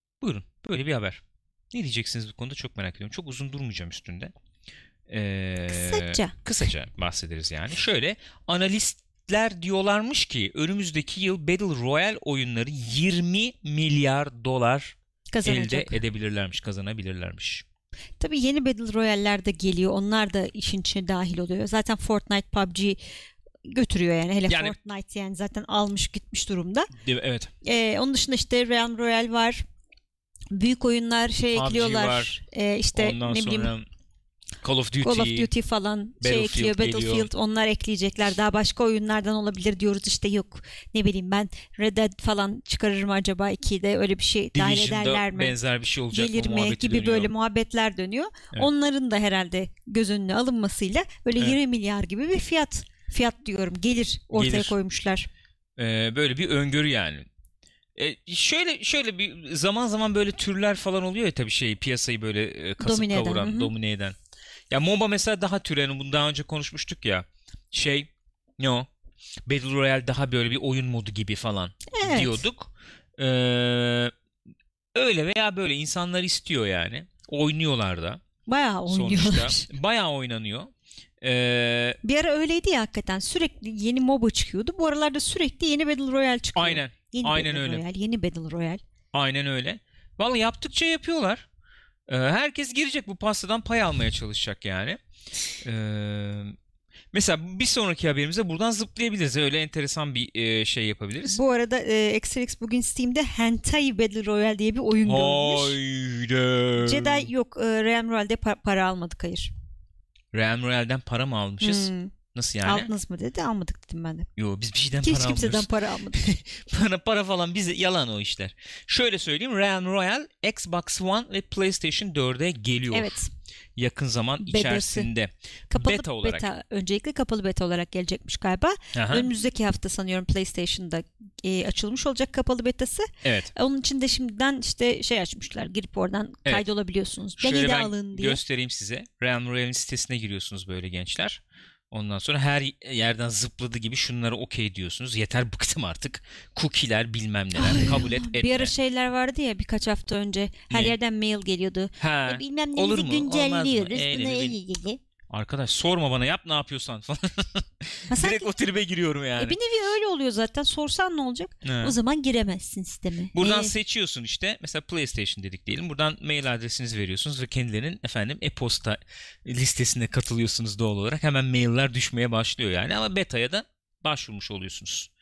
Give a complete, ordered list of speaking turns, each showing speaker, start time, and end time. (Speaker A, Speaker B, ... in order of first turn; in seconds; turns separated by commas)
Speaker A: 0.2-1.2, Speaker A: 1.7-4.3, Speaker A: 5.1-17.6, Speaker B: 5.7-6.3, Speaker B: 15.3-16.0, Speaker B: 18.2-23.0, Speaker B: 23.6-26.9, Speaker A: 24.5-24.8, Speaker A: 26.9-27.5, Speaker B: 27.6-29.6, Speaker B: 30.5-33.7, Speaker A: 31.5-32.3, Speaker A: 32.9-33.9, Speaker A: 34.6-35.5, Speaker B: 35.0-45.5, Speaker A: 36.2-37.3, Speaker A: 44.5-47.3, Speaker B: 46.1-55.3, Speaker A: 54.3-54.8, Speaker A: 55.8-57.3, Speaker A: 57.9-64.2, Speaker B: 62.8-63.7, Speaker A: 64.7-68.9, Speaker A: 69.5-74.1, Speaker B: 71.9-72.4, Speaker A: 74.9-78.2, Speaker B: 78.5-79.7, Speaker A: 78.9-82.0, Speaker B: 82.0-88.8, Speaker A: 86.5-87.8, Speaker A: 89.1-91.5, Speaker A: 92.1-95.0, Speaker A: 95.6-96.5, Speaker A: 97.1-101.4, Speaker B: 101.2-105.8, Speaker A: 105.0-107.3, Speaker B: 106.8-109.5, Speaker A: 110.3-112.9, Speaker B: 111.6-114.3, Speaker A: 114.3-123.2, Speaker B: 115.0-116.3, Speaker B: 122.9-123.3, Speaker A: 123.8-126.5, Speaker B: 124.4-125.1, Speaker B: 125.7-138.4, Speaker A: 128.9-129.3, Speaker A: 133.2-133.5, Speaker A: 137.4-148.7, Speaker B: 147.6-155.0, Speaker A: 150.7-150.9, Speaker A: 152.0-154.6, Speaker A: 155.3-159.6, Speaker B: 158.1-158.5, Speaker B: 159.4-163.7, Speaker A: 161.6-161.9, Speaker A: 163.3-175.1